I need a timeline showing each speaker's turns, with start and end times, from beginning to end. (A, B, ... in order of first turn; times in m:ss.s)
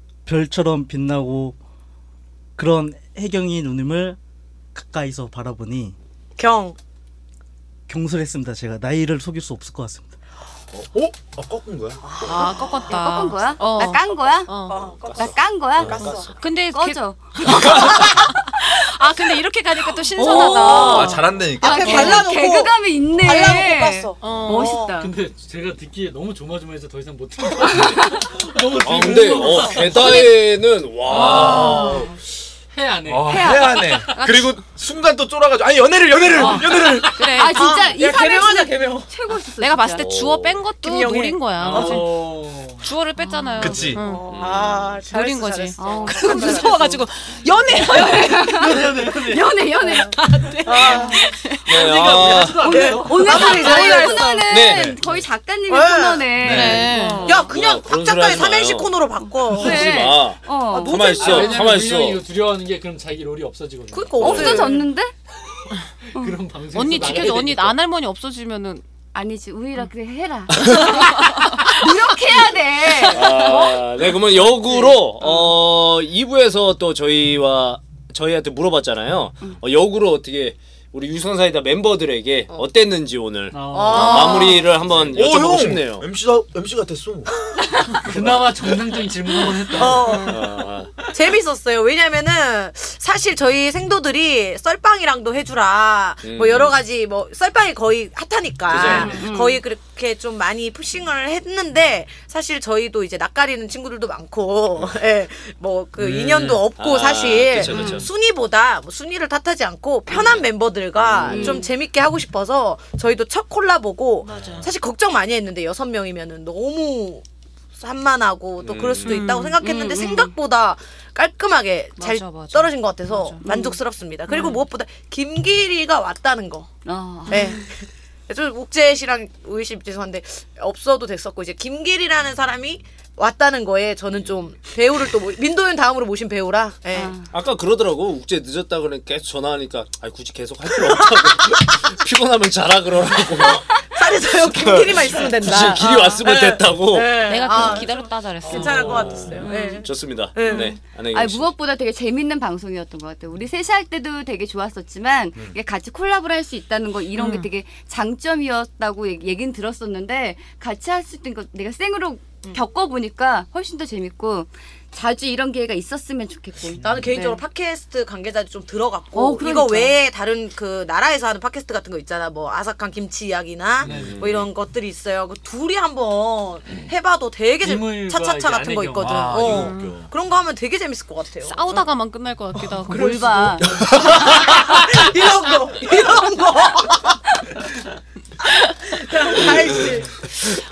0:00.2-0:01.6 A
0:02.6-0:04.2 A
0:04.8-0:06.0 A
0:06.4-0:06.8 B
0:07.9-0:10.2 A
0:10.7-0:12.0 C
0:12.0-0:12.9 B
0:12.2-0:14.9 D
0:12.4-0:14.5 E
0:14.0-0:16.4 B
0:14.8-0:16.3 F
0:15.2-0:16.2 E
0:15.8-0:16.0 C
0:16.2-0:21.2 D
0:16.7-0:17.9 E
0:17.7-0:18.2 B
0:20.2-0:25.1 B
0:20.2-0:25.1 E
0:20.7-0:22.3 C
0:24.2-0:24.8 D
0:25.0-0:30.3 G
0:28.8-0:32.1 F
0:29.8-0:30.3 D
0:30.0-0:30.3 E
0:31.1-0:32.0 C
0:31.2-0:32.1 E
0:31.3-0:31.9 D
0:32.7-0:33.5 G
0:33.1-0:37.4 C
0:33.3-0:34.0 E
0:33.8-0:34.6 D
0:36.4-0:36.6 E
0:37.2-0:37.9 D
0:37.2-0:40.0 E
0:37.5-0:39.1 B
0:39.6-0:42.1 D
0:40.0-0:40.6 F
0:40.8-0:42.2 B
0:41.6-0:42.9 G
0:41.7-0:42.0 C
0:42.8-0:44.3 D
0:43.4-0:43.9 E
0:43.6-0:44.0 C
0:43.8-0:47.0 B
0:44.3-0:45.0 F
0:45.1-0:48.6 D
0:45.8-0:47.0 E
0:47.7-0:51.2 E
0:48.6-0:49.4 G
0:49.8-0:51.2 B
0:50.1-0:51.6 D
0:51.7-0:52.8 F
0:51.7-0:54.0 G
0:52.6-0:54.8 B
0:52.6-0:57.5 E
0:54.5-0:55.0 F
0:55.7-0:56.4 B
0:56.4-0:56.9 C
0:56.4-0:57.4 D
0:57.2-1:01.3 B
0:57.5-0:59.0 F
0:59.2-1:01.7 E
0:59.6-1:02.2 F
1:01.2-1:04.3 G
1:03.9-1:04.9 B
1:04.2-1:04.6 F
1:04.2-1:05.1 E
1:06.1-1:07.8 G
1:06.7-1:08.8 D
1:09.1-1:13.8 E
1:10.6-1:11.0 F
1:11.0-1:11.6 D
1:13.1-1:26.1 F
1:14.7-1:15.5 E
1:23.5-1:24.5 G
1:23.7-1:24.8 B
1:25.1-1:27.3 C
1:28.0-1:30.3 G
1:29.6-1:57.2 B
1:29.9-1:30.4 D
1:30.3-1:30.9 F
1:36.2-1:36.8 F
1:38.7-1:39.2 F
1:38.8-1:39.6 E
1:38.9-1:39.2 G
1:46.0-1:46.6 G
1:46.8-1:48.1 F
1:47.7-1:48.1 E
1:50.1-1:51.6 F
1:51.3-1:51.7 E
1:54.2-1:54.7 D
1:57.8-2:06.7 B
1:58.6-1:59.2 F
1:59.0-1:59.6 D
1:59.6-2:00.4 E
2:02.0-2:03.5 D
2:03.4-2:03.8 E
2:04.3-2:04.6 D
2:04.3-2:04.6 E
2:06.8-2:07.7 E
2:07.3-2:07.7 B
2:07.3-2:07.6 D
2:08.3-2:17.2 B
2:16.9-2:17.3 E
2:17.3-2:23.6 F
2:20.8-2:21.6 B
2:23.4-2:30.8 B
2:24.5-2:27.8 F
2:25.9-2:26.2 E
2:27.2-2:29.4 D
2:28.5-2:31.5 F
2:29.4-2:29.8 E
2:30.5-2:47.4 E
2:37.2-2:37.5 D
2:46.8-3:01.9 B
2:49.1-2:50.0 E
2:53.8-2:54.5 F
2:53.9-2:54.3 G
2:57.6-2:59.7 G
2:59.0-3:00.1 C
2:59.5-3:00.0 D
3:01.5-3:03.6 D
3:02.5-3:07.2 B
3:02.9-3:03.8 E
3:08.8-3:10.2 B